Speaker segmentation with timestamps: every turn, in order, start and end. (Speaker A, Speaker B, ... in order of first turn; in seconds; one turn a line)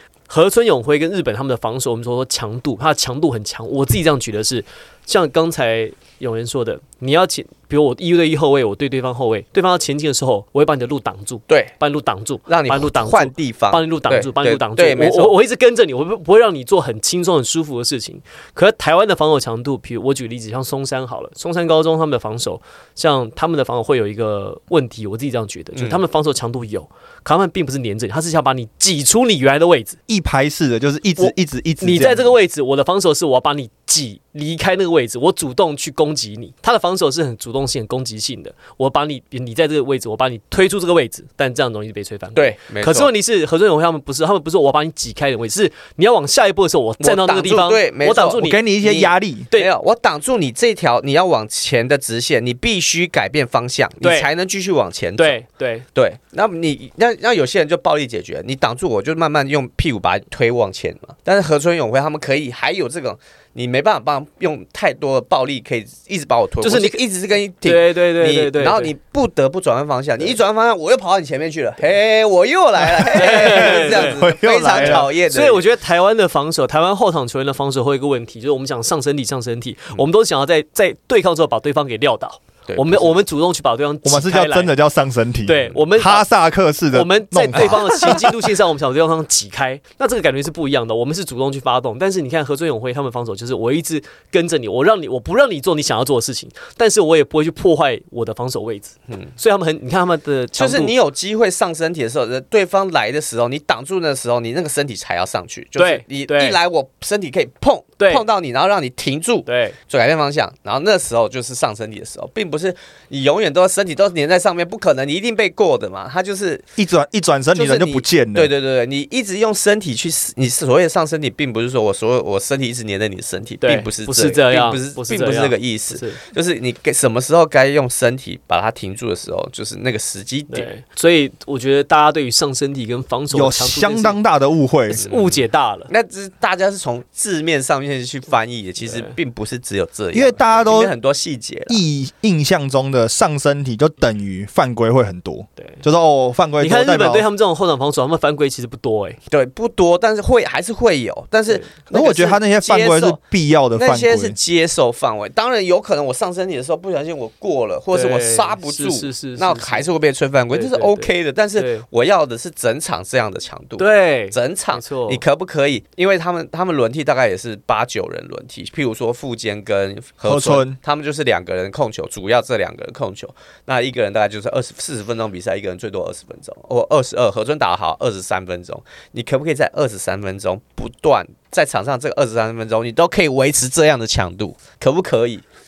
Speaker A: 0.3-30.0
Speaker B: 12.5-15.4
Speaker B: 25.7-26.0
Speaker C: 30.1-32.4
Speaker A: 31.2-48.6
Speaker B: 42.3-43.1
Speaker B: 47.0-55.4
Speaker C: 48.4-49.5
Speaker A: 54.0-54.3
Speaker A: 55.2-55.9
Speaker B: 55.9-75.6
Speaker A: 66.6-67.0
Speaker A: 67.6-68.9
Speaker C: 73.0-75.1
Speaker A: 73.0-84.8
Speaker B: 82.7-83.2
Speaker C: 84.0-88.3
Speaker A: 85.5-86.3
Speaker A: 86.9-100.9
Speaker B: 87.5-88.3
Speaker B: 100.5-116.6
Speaker A: 105.8-106.6
Speaker A: 108.0-108.2
Speaker A: 109.5-109.8
Speaker C: 116.8-118.5
Speaker B: 117.5-130.7
Speaker A: 123.6-126.2
Speaker A: 130.5-134.2
Speaker C: 133.3-135.0
Speaker A: 134.9-135.9
Speaker B: 134.9-141.8
Speaker A: 138.8-139.1
Speaker C: 140.1-140.9
Speaker C: 141.7-147.2
Speaker A: 145.6-145.8
Speaker A: 146.6-149.2
Speaker B: 149.3-153.2
Speaker C: 151.9-154.4
Speaker B: 153.7-185.4
Speaker A: 157.9-159.9
Speaker A: 160.5-161.8
Speaker A: 163.8-165.2
Speaker C: 170.2-170.8